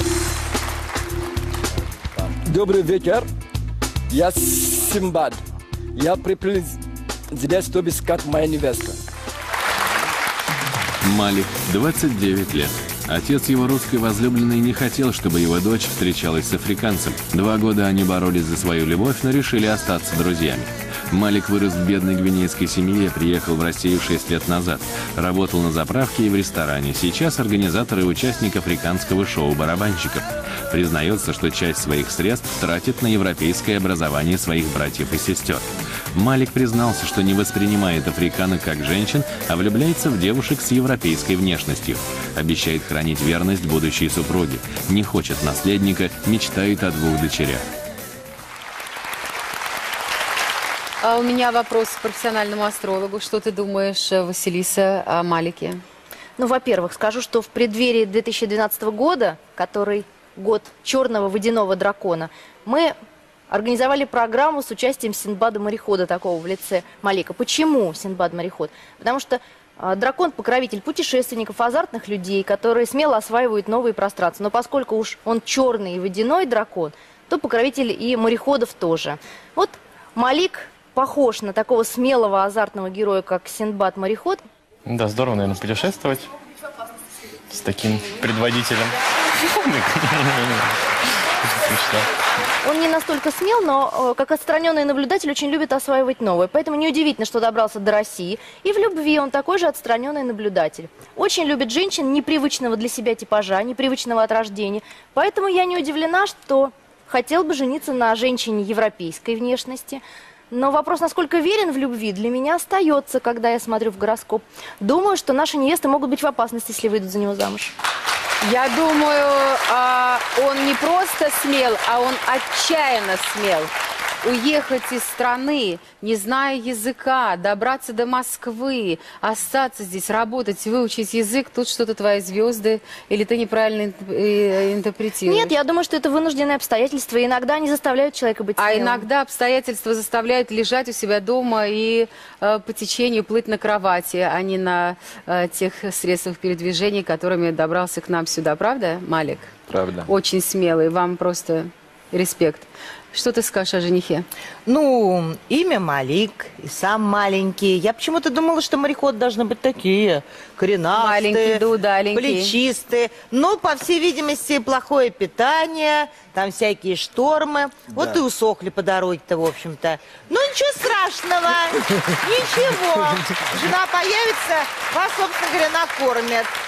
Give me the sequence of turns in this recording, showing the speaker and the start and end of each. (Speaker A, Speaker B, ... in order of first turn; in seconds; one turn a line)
Speaker A: 2.4-3.2
Speaker A: 4.1-5.4
Speaker A: 5.9-9.0
Speaker B: 11.0-47.6
Speaker C: 51.0-55.8
Speaker D: 56.4-62.9
Speaker D: 63.5-84.4
Speaker E: 84.9-86.3
Speaker E: 87.5-90.7
Speaker E: 91.5-92.1
Speaker D: 92.6-117.7
Speaker C: 118.4-123.7
Speaker C: 124.2-135.5
Speaker D: 135.2-139.0
Speaker C: 138.6-149.5
Speaker A: 149.7-150.1
Speaker C: 150.1-154.2
Speaker F: 154.7-161.6
Speaker C: 160.9-162.5
Speaker F: 162.1-176.5
Speaker A: 167.9-168.2